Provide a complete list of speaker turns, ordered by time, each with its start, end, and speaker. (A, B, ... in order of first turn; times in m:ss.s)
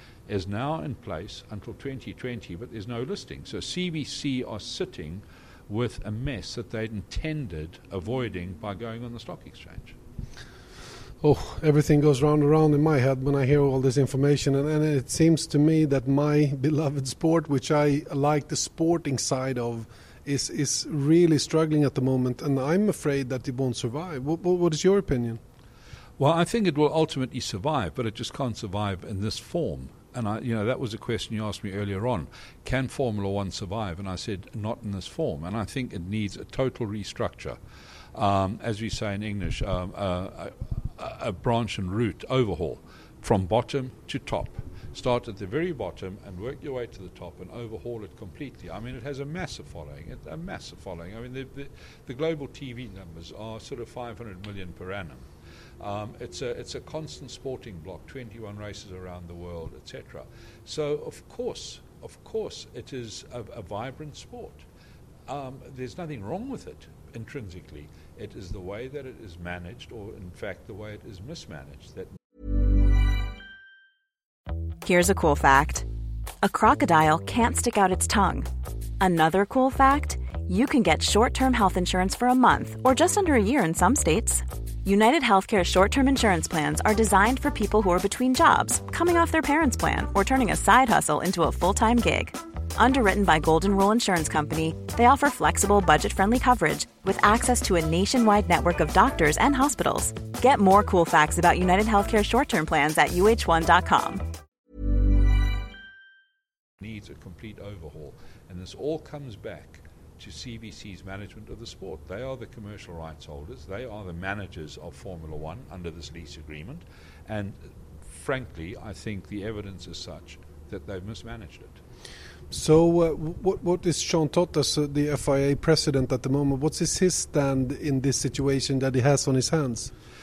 0:00.3-0:10.0 A
0:11.2-0:25.4 B
0:26.2-0:37.6 A
0:38.1-0:55.2 A
0:55.8-1:04.7 A
1:05.3-1:12.1 A
1:14.8-1:15.8 C
1:16.4-1:18.5 C
1:19.0-1:44.2 C
1:46.8-2:01.8 A
2:02.5-2:09.9 B